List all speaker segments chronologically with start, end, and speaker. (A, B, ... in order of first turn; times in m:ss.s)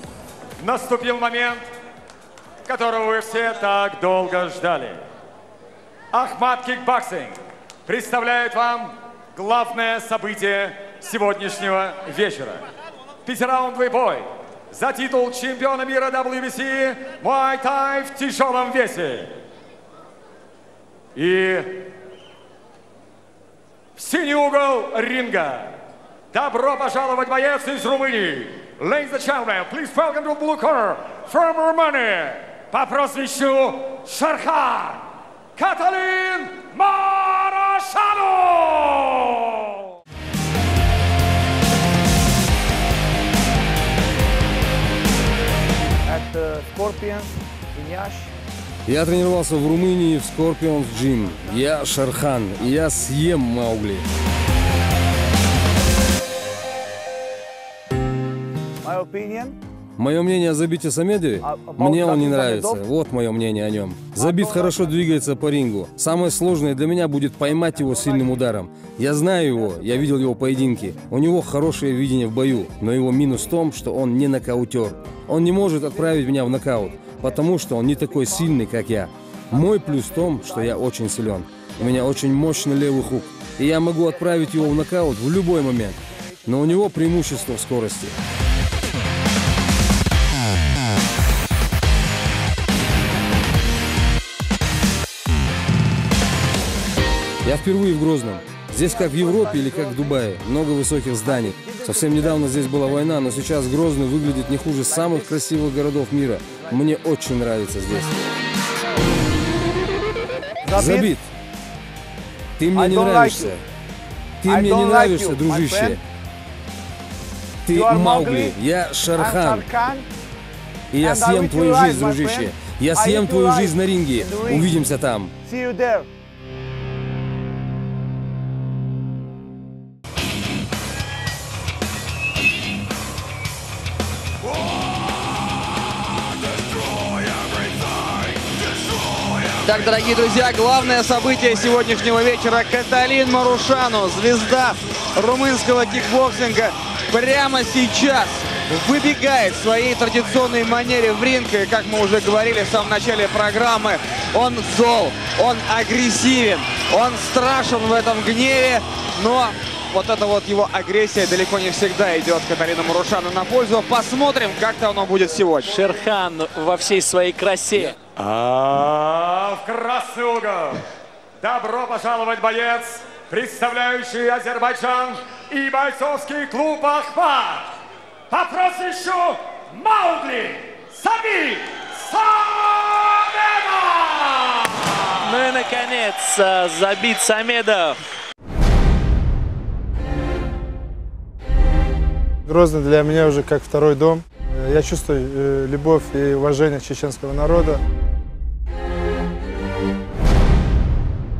0:00.6-0:01.7 A
0:02.6-0:05.0 A
0:06.1-0:12.7 A
0:13.2-0:19.3 A
0:21.1-0:21.9 A
0:23.9-0:25.7 A
0:26.3-0:39.6 A
0:46.1-0:48.3 B
0:48.8-0:54.0 C
0:58.8-0:59.6 B
1:00.0-1:28.2 C
1:01.4-1:02.8 B
1:04.2-1:04.6 B
1:37.4-1:48.1 C
1:38.8-1:40.1 B
1:41.3-1:42.3 B
1:50.6-1:51.1 B
1:50.7-1:51.2 C
1:52.6-1:53.6 C
1:52.7-1:53.5 B
1:54.4-1:56.0 C
1:54.4-1:56.0 B
1:57.6-1:59.7 C
1:57.7-1:58.6 B
1:59.1-2:00.1 B
2:00.9-2:05.3 C
2:01.0-2:04.7 B
2:05.4-2:06.1 B
2:19.6-2:45.7 D
2:45.6-2:48.0 E
2:48.1-2:50.8 A
2:51.4-2:57.7 A
2:58.3-3:05.4 A
3:05.2-3:08.0 E
3:12.4-3:17.8 F